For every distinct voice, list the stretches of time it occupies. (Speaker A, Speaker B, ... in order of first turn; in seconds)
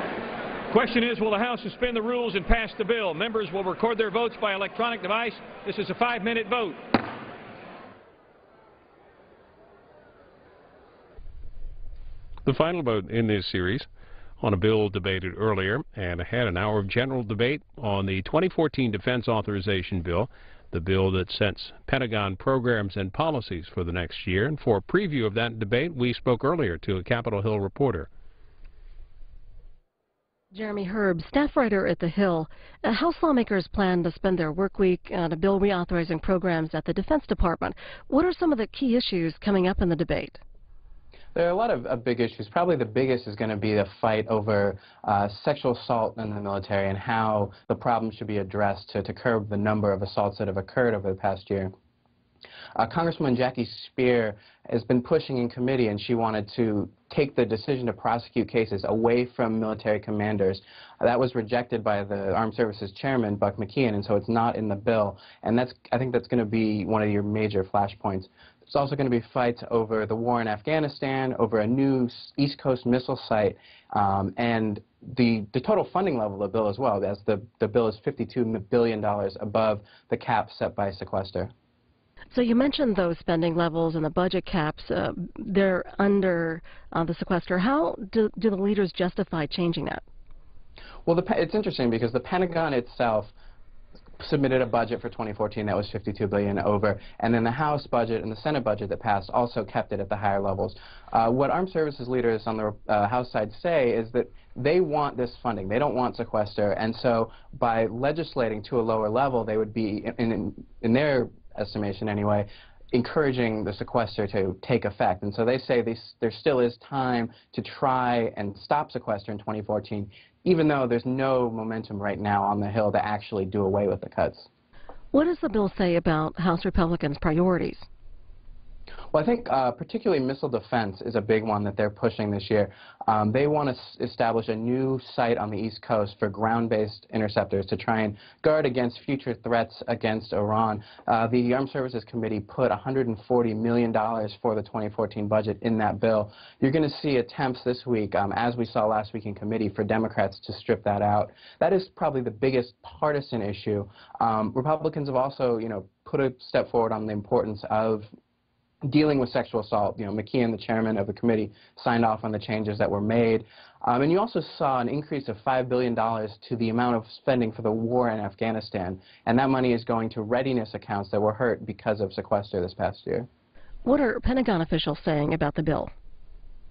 Speaker A: 0.7-6.8
Speaker B: 12.4-13.9, 14.4-28.1
Speaker C: 30.5-40.4, 82.3-90.0, 125.1-127.8, 173.8-175.9
Speaker D: 41.3-51.7, 52.8-81.5, 91.0-93.3, 94.2-124.5, 129.1-158.1, 158.8-173.3